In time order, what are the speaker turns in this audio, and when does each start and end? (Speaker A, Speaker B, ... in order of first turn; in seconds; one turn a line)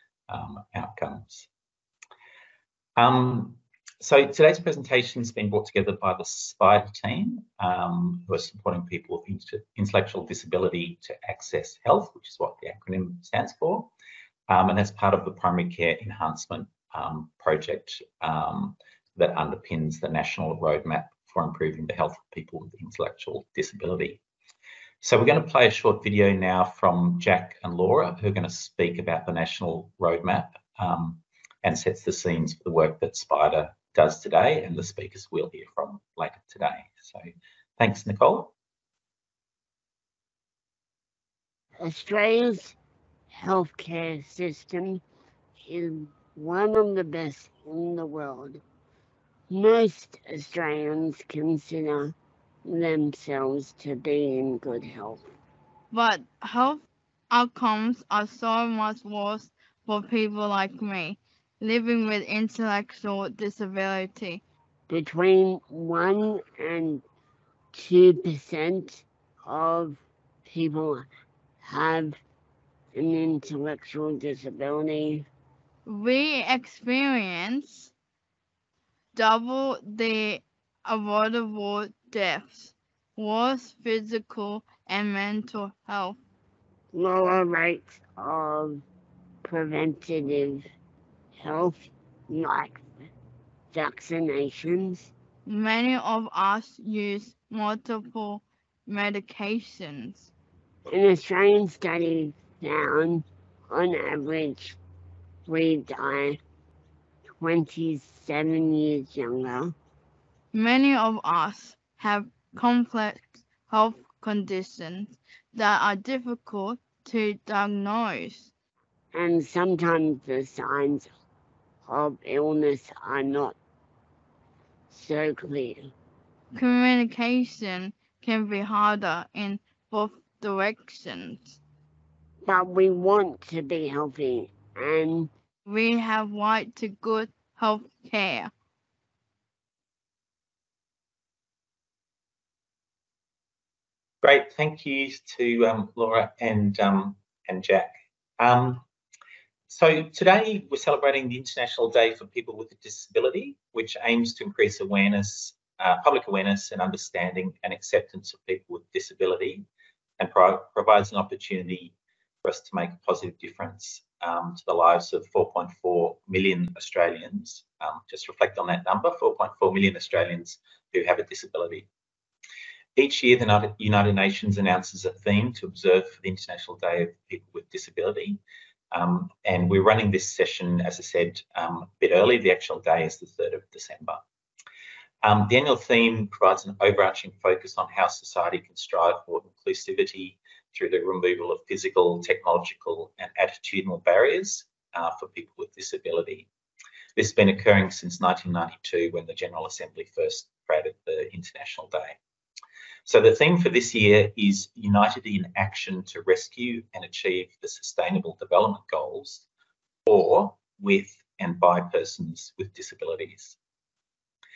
Speaker A: 0.3-1.5
Speaker A: 3.0-13.9
Speaker A: 14.5-24.2
Speaker A: 25.0-37.2
Speaker A: 37.8-38.5
Speaker B: 41.8-42.8
Speaker B: 43.3-45.0
Speaker B: 45.6-48.6
Speaker B: 49.5-52.1
Speaker B: 52.6-55.2
Speaker C: 55.9-64.4
Speaker B: 64.9-67.0
Speaker B: 67.7-71.1
Speaker B: 71.6-72.2
Speaker B: 72.9-75.2
Speaker C: 75.8-77.9
Speaker C: 79.1-86.2
Speaker B: 86.9-88.8
Speaker B: 89.4-90.6
Speaker B: 91.4-92.9
Speaker B: 93.7-95.1
Speaker C: 95.5-100.3
Speaker B: 100.9-104.8
Speaker B: 105.5-106.4
Speaker B: 107.4-109.7
Speaker C: 110.5-118.5
Speaker B: 119.1-121.1
Speaker B: 121.8-123.5
Speaker B: 124.9-125.9
Speaker C: 126.5-131.6
Speaker B: 132.4-135.3
Speaker C: 135.7-138.5
Speaker A: 144.2-148.8
Speaker A: 149.7-159.7
Speaker A: 160.2-161.9
Speaker A: 162.4-171.9
Speaker A: 172.9-178.4
Speaker A: 178.9-184.2
Speaker A: 185.2-196.5
Speaker A: 197.2-202.2
Speaker A: 203.1-209.4
Speaker A: 210.1-213.6